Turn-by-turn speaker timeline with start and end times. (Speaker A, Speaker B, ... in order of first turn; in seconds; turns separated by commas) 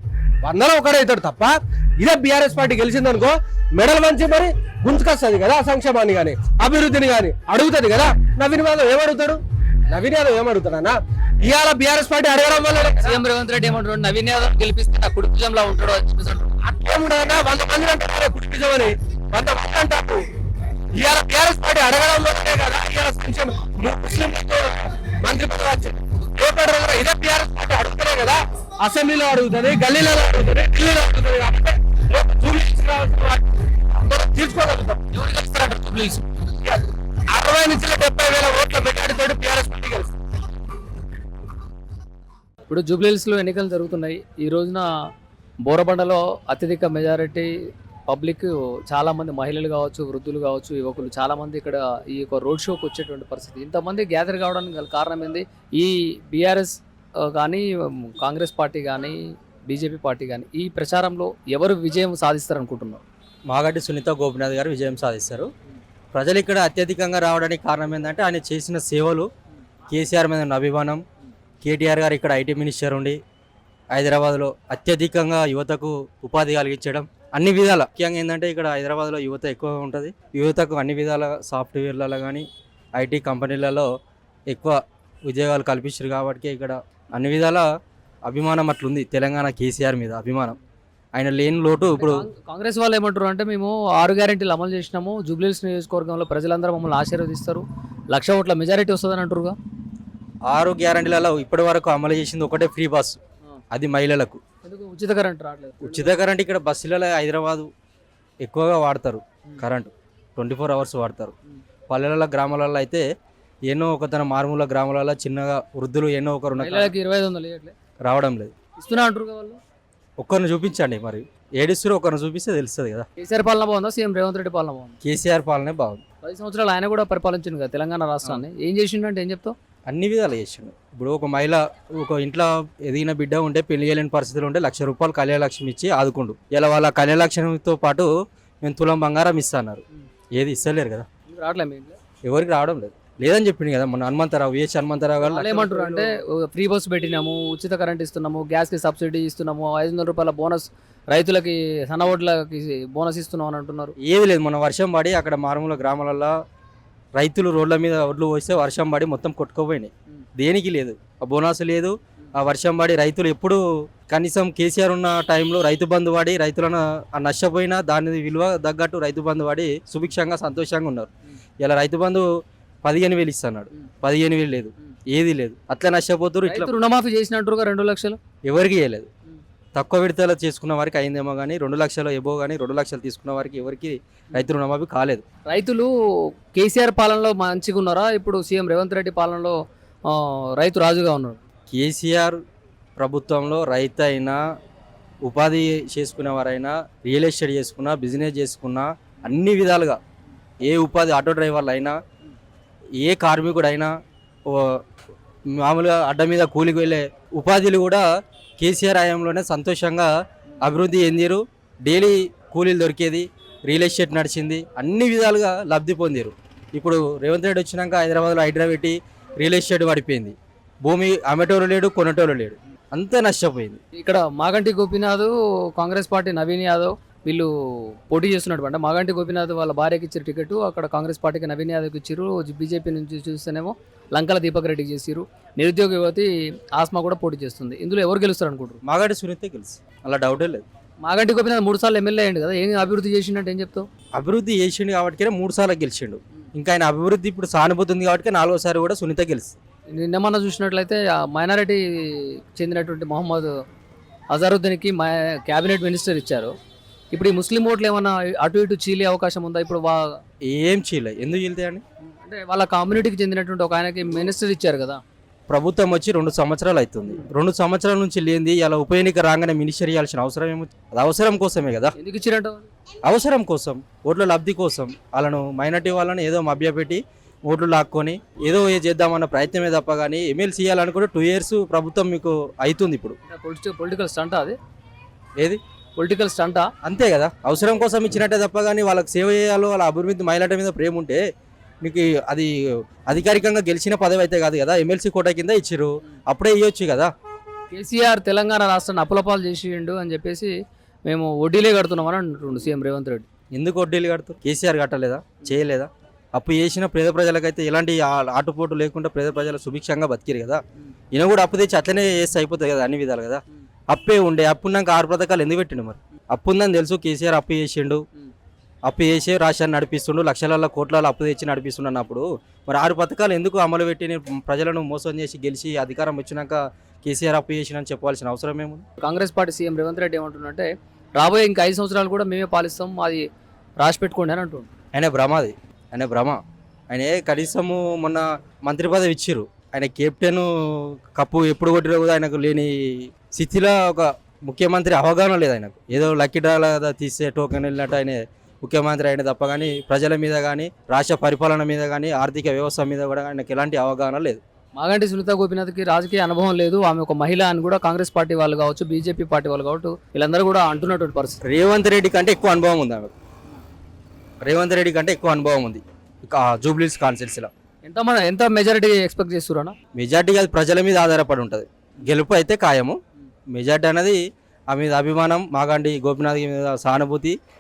Speaker A: 0.4-13.2, Speaker B: 13.0-16.5, Speaker A: 16.6-20.2, Speaker A: 20.9-40.1, Speaker B: 42.7-44.9, Speaker B: 45.7-47.5, Speaker B: 48.1-63.0, Speaker C: 63.5-65.5, Speaker C: 66.1-69.3, Speaker C: 69.9-71.0, Speaker C: 71.6-73.2, Speaker C: 73.9-82.5, Speaker C: 83.0-83.9, Speaker C: 84.5-87.6, Speaker C: 88.3-90.6, Speaker C: 91.1-92.2, Speaker B: 92.0-99.6, Speaker C: 100.5-103.2, Speaker C: 103.7-104.4, Speaker B: 104.6-106.1, Speaker C: 105.8-107.7, Speaker C: 108.4-111.3, Speaker C: 111.9-113.0, Speaker C: 113.7-116.9, Speaker B: 116.6-117.7, Speaker C: 118.0-118.5, Speaker B: 118.8-119.6, Speaker C: 120.2-123.1, Speaker B: 123.2-125.0, Speaker C: 125.0-126.0, Speaker B: 126.2-129.6, Speaker C: 129.9-138.1, Speaker C: 138.6-139.8, Speaker C: 140.4-141.1, Speaker B: 141.3-142.0, Speaker C: 142.2-146.1, Speaker B: 145.2-153.9, Speaker C: 154.0-156.3, Speaker C: 157.2-171.1, Speaker C: 171.6-172.2, Speaker C: 172.8-176.7, Speaker B: 176.5-178.2, Speaker C: 178.4-179.1, Speaker C: 179.8-185.2, Speaker B: 185.5-185.9, Speaker B: 186.5-189.6, Speaker B: 190.1-191.4, Speaker C: 191.7-192.4, Speaker C: 193.0-194.4, Speaker C: 195.3-200.0, Speaker C: 200.6-202.0, Speaker C: 203.0-203.9, Speaker C: 204.5-204.8, Speaker C: 205.5-208.0, Speaker C: 208.6-210.1, Speaker C: 210.6-223.8, Speaker B: 223.9-238.8, Speaker C: 238.8-240.7, Speaker B: 241.0-243.9, Speaker C: 244.2-249.6, Speaker B: 249.9-253.5, Speaker B: 254.3-256.5, Speaker B: 257.1-260.2, Speaker C: 260.5-261.8, Speaker B: 262.0-265.0, Speaker C: 265.5-271.9, Speaker B: 272.0-272.7, Speaker C: 273.1-283.2, Speaker B: 283.3-284.6, Speaker B: 286.0-286.7, Speaker C: 286.8-291.2, Speaker C: 291.8-292.5, Speaker C: 293.1-297.1, Speaker B: 297.7-300.5, Speaker B: 301.1-303.3, Speaker C: 303.5-318.0, Speaker C: 318.9-328.9, Speaker B: 329.0-333.2, Speaker B: 333.8-334.7, Speaker C: 334.9-354.4, Speaker B: 354.8-361.4, Speaker C: 361.4-363.1, Speaker C: 364.4-367.5, Speaker B: 367.9-369.8, Speaker C: 370.0-373.0, Speaker C: 373.5-377.4